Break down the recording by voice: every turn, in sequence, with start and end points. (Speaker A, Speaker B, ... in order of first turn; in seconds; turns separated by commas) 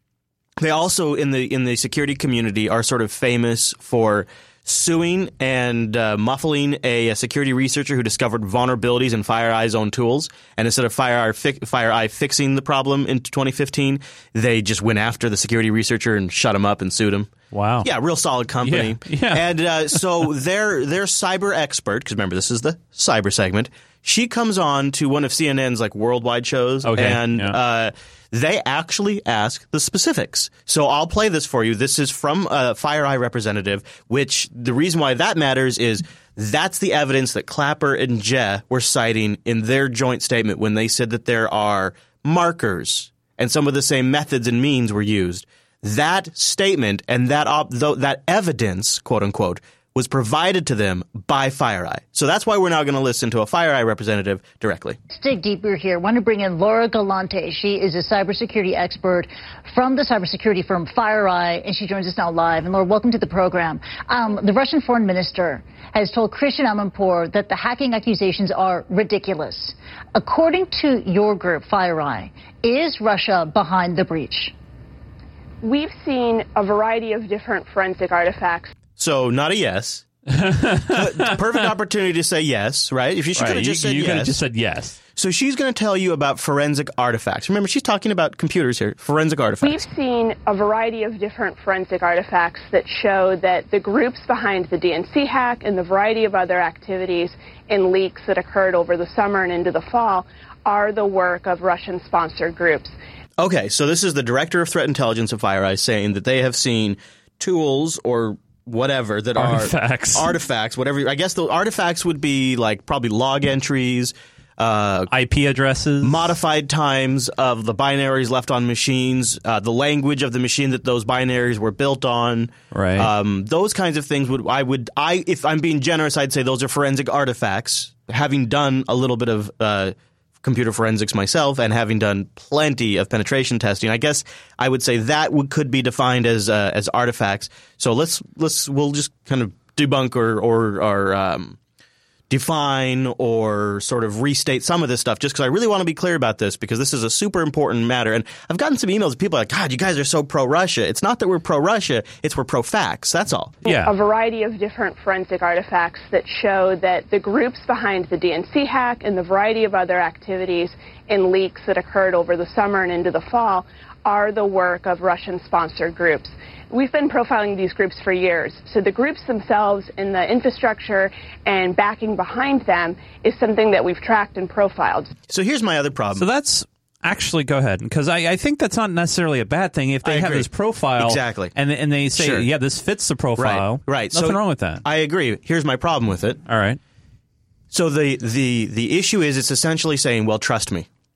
Speaker A: 0.6-17.3, Speaker B: 17.5-17.9, Speaker A: 17.8-55.0, Speaker B: 18.6-20.0, Speaker B: 26.8-27.5, Speaker C: 55.1-74.5, Speaker D: 75.6-78.7, Speaker A: 79.0-80.0, Speaker B: 80.3-81.7, Speaker A: 80.9-84.4, Speaker B: 83.3-85.0, Speaker A: 85.2-89.8, Speaker D: 89.6-102.9, Speaker A: 103.4-115.1, Speaker B: 109.3-110.3, Speaker B: 115.1-116.3, Speaker A: 116.0-141.6, Speaker B: 122.7-123.1, Speaker A: 142.3-153.6, Speaker B: 153.6-153.9, Speaker D: 153.7-175.1, Speaker A: 175.3-176.2, Speaker B: 176.2-184.8, Speaker A: 180.0-181.5, Speaker A: 182.2-182.5, Speaker A: 183.4-186.4, Speaker B: 186.5-186.8, Speaker A: 187.7-190.8